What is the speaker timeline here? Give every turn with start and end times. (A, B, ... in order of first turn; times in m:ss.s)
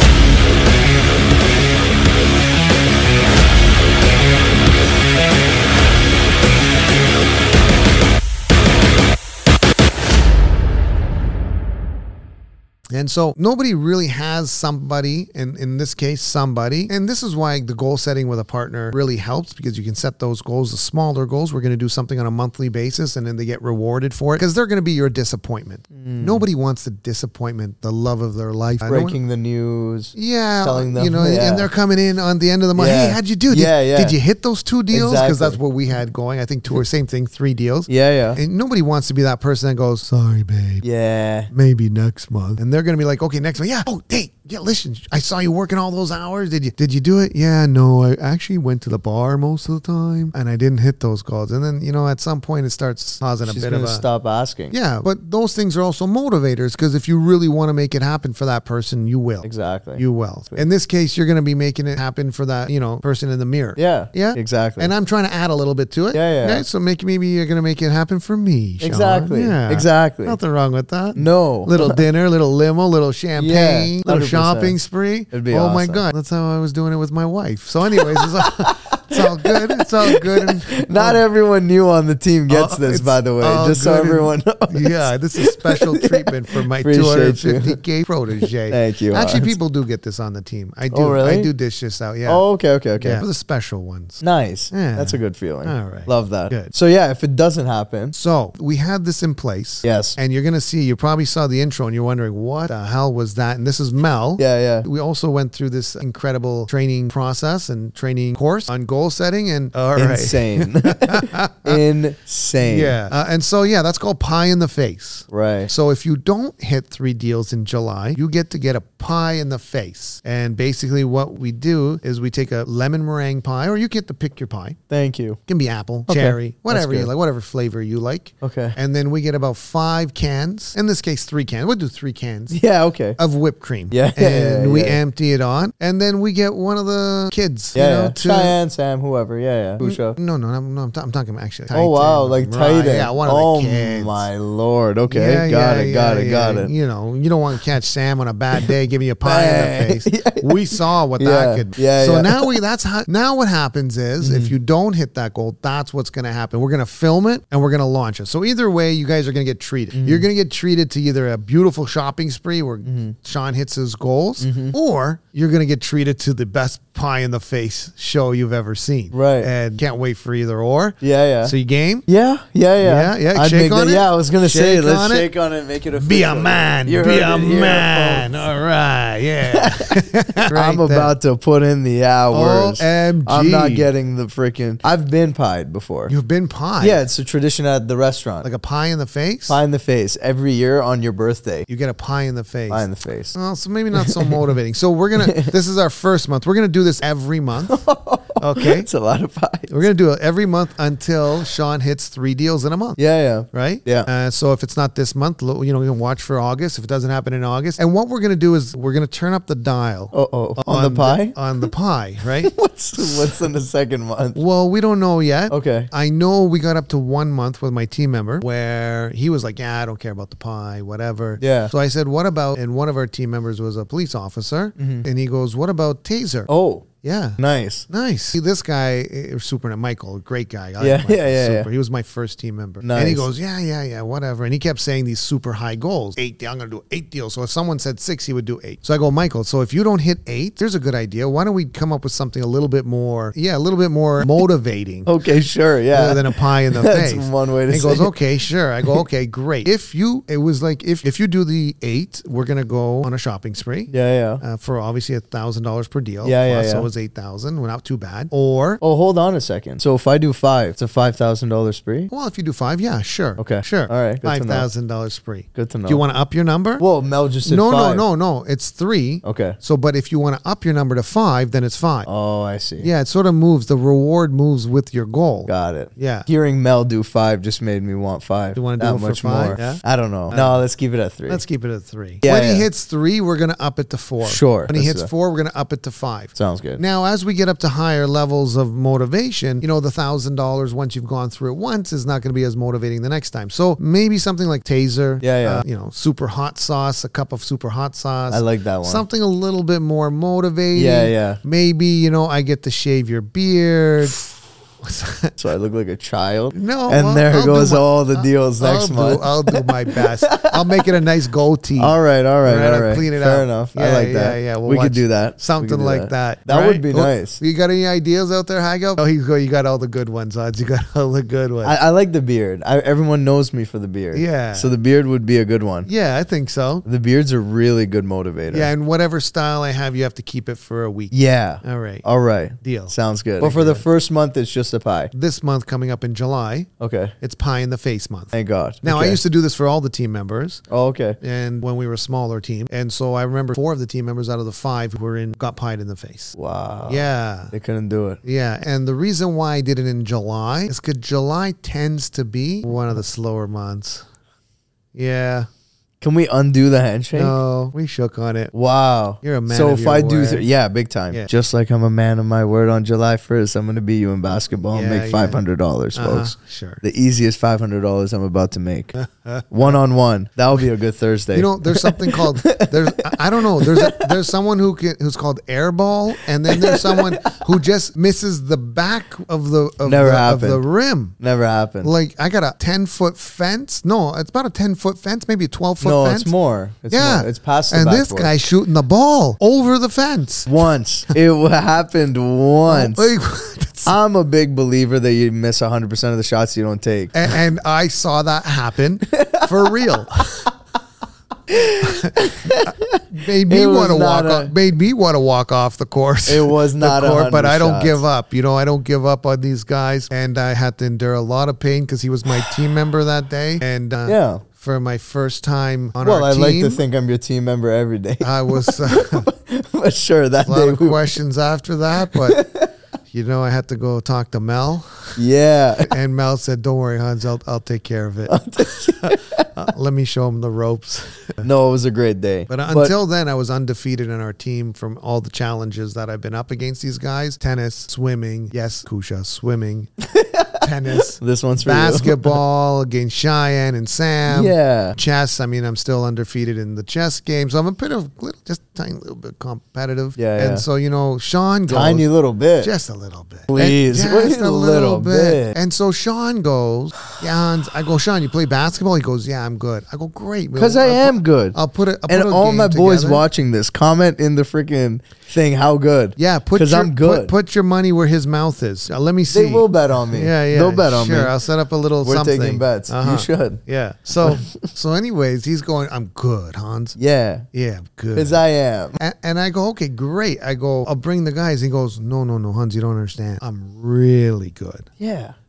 0:12.9-0:29.2 A
0:25.9-0:26.4 B
0:28.8-0:31.7 B
0:30.1-0:40.8 A
0:32.7-0:34.2 B
0:34.9-0:35.6 B
0:37.9-0:38.4 B
0:40.8-0:41.5 B
0:41.5-0:54.0 A
0:53.4-0:54.7 B
0:54.7-1:21.2 A
0:59.4-1:00.6 B
1:03.8-1:04.9 B
1:06.1-1:06.6 B
1:08.8-1:10.4 B
1:11.1-1:12.0 B
1:13.4-1:14.8 B
1:15.3-1:16.0 B
1:17.9-1:27.8 B
1:22.5-1:32.4 A
1:28.4-1:29.6 B
1:30.9-1:31.5 B
1:32.2-1:33.2 B
1:33.0-1:36.7 A
1:34.2-1:38.1 B
1:38.1-1:51.8 A
1:39.8-1:40.2 B
1:44.4-1:44.8 B
1:50.0-1:53.0 B
1:52.6-2:04.8 A
1:55.3-1:55.7 B
2:04.9-2:05.4 B
2:05.5-2:12.6 A
2:06.1-2:07.1 B
2:08.4-2:08.8 B
2:12.5-2:13.2 B
2:13.2-2:18.6 A
2:13.9-2:15.0 B
2:17.7-2:20.2 B
2:19.8-2:24.3 A
2:21.7-2:26.7 B
2:25.1-2:52.0 A
2:29.2-2:32.6 B
2:34.2-2:34.5 B
2:39.9-2:40.3 B
2:42.8-2:43.2 B
2:44.4-2:44.8 B
2:49.1-2:49.5 B
2:51.0-2:51.5 B
2:52.1-2:58.4 B
2:52.8-2:55.3 A
2:56.0-3:01.1 A
2:59.5-3:06.1 B
3:02.3-3:03.9 A
3:06.1-3:07.0 A
3:06.8-3:08.5 B
3:08.4-3:09.6 A
3:09.5-3:11.6 B
3:11.7-3:17.8 A
3:12.7-3:13.4 B
3:13.9-3:14.5 B
3:15.2-3:15.5 B
3:17.7-3:19.8 B
3:18.4-3:18.9 A
3:19.7-3:23.0 A
3:23.0-3:24.1 B
3:23.5-3:33.4 A
3:30.1-3:31.7 B
3:32.4-3:34.4 B
3:34.3-3:46.5 A
3:35.5-3:35.9 B
3:41.4-3:41.7 B
3:44.8-3:45.0 B
3:46.5-3:46.8 B
3:47.0-4:05.1 A
3:47.4-3:47.8 B
3:50.8-3:51.7 B
3:52.8-3:53.3 B
4:05.0-4:08.1 B
4:05.9-4:18.8 A
4:13.9-4:14.4 B
4:16.2-4:16.9 B
4:18.8-4:22.1 B
4:22.1-4:26.8 A
4:23.4-4:24.7 B
4:25.5-4:26.0 B
4:26.8-4:28.0 B
4:27.4-4:32.1 A
4:29.2-4:29.6 B
4:32.0-4:32.9 B
4:32.8-4:36.3 A
4:35.4-4:41.4 B
4:38.5-4:40.6 A
4:41.3-5:04.3 A
4:42.2-4:42.7 B
4:44.2-4:45.1 B
4:46.3-4:46.8 B
4:55.2-4:55.6 B
4:58.3-4:59.0 B
5:00.7-5:01.4 B
5:04.8-5:05.3 A
5:05.4-5:11.0 B
5:06.5-5:21.7 A
5:11.8-5:17.4 B
5:21.6-5:25.9 B
5:24.1-5:24.7 A
5:25.8-5:26.8 A
5:26.8-5:28.7 B
5:28.5-5:32.0 A
5:31.1-5:35.1 B
5:32.6-5:33.8 A
5:35.1-5:36.7 A
5:36.8-5:37.1 B
5:37.2-5:40.6 A
5:38.3-5:39.2 B
5:40.7-5:41.2 B
5:41.2-5:46.4 A
5:46.3-5:48.2 B
5:46.9-5:47.5 A
5:48.2-5:54.0 A
5:54.9-5:55.5 A
5:56.0-5:57.4 B
5:57.1-5:58.5 A
5:58.5-6:08.9 B
5:59.2-6:00.5 A
6:04.7-6:05.4 A
6:05.9-6:06.8 A
6:08.9-6:09.8 A
6:09.5-6:14.2 B
6:11.3-6:21.2 A
6:16.5-6:17.3 B
6:19.8-6:20.6 B
6:21.2-6:21.9 B
6:21.8-6:26.3 A
6:25.8-6:28.3 B
6:26.9-6:30.5 A
6:30.4-6:33.1 B
6:32.6-6:33.9 A
6:33.8-6:37.3 B
6:37.1-6:40.5 A
6:39.2-6:40.2 B
6:41.5-6:44.5 B
6:41.8-6:56.8 A
6:46.3-6:48.0 B
6:52.3-6:52.6 B
6:54.0-6:54.4 B
6:56.0-7:01.2 B
6:58.2-6:59.3 A
7:00.4-7:02.4 A
7:02.1-7:02.7 B
7:03.1-7:05.2 A
7:05.2-7:05.9 B
7:05.8-7:11.5 A
7:08.3-7:09.5 B
7:11.4-7:12.9 B
7:12.5-7:19.9 A
7:20.0-7:22.4 B
7:20.6-7:32.0 A
7:24.3-7:25.0 B
7:30.2-7:30.6 B
7:31.7-7:32.7 B
7:32.6-7:43.3 A
7:33.5-7:35.6 B
7:40.5-7:47.3 B
7:46.2-7:57.0 A
7:49.3-7:51.3 B
7:52.0-7:53.6 B
7:54.2-7:54.5 B
7:57.0-7:57.4 B
7:57.5-7:58.4 A
7:58.1-7:59.0 B
7:59.0-8:04.9 A
8:05.0-8:05.3 B